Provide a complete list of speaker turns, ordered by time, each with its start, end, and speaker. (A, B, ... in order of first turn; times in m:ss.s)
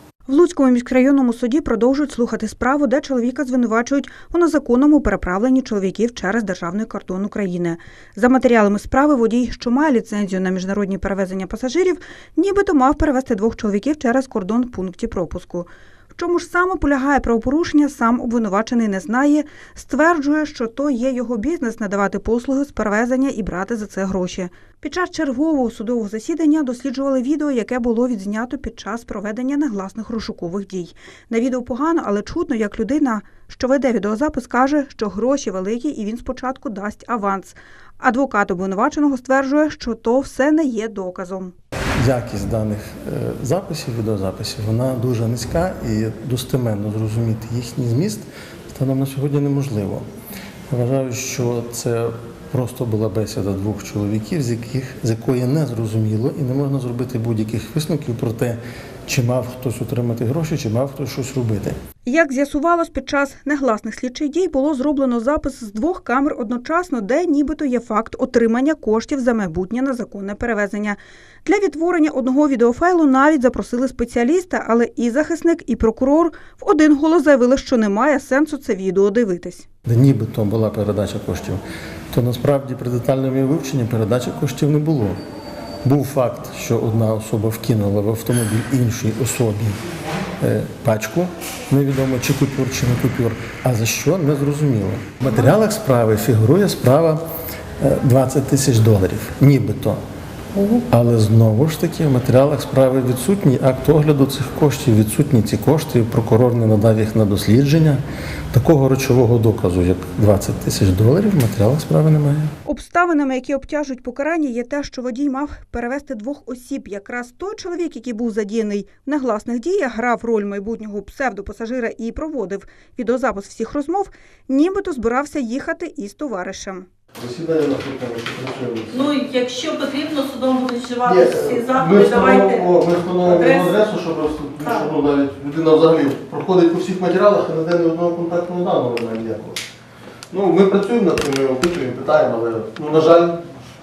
0:00.3-0:41.5 A
0:42.0-0:50.1 B
0:50.7-1:01.8 B
1:02.0-1:19.6 A
1:19.8-1:25.2 B
1:25.8-1:29.8 B
1:30.4-1:37.2 B
1:37.8-1:40.0 B
1:40.5-1:48.0 B
1:48.5-1:52.5 B
1:52.6-2:06.9 A
2:07.2-2:09.1 B
2:08.9-2:12.7 C
2:11.0-2:19.6 B
2:13.2-2:13.8 C
2:14.6-2:14.9 C
2:20.3-2:23.4 B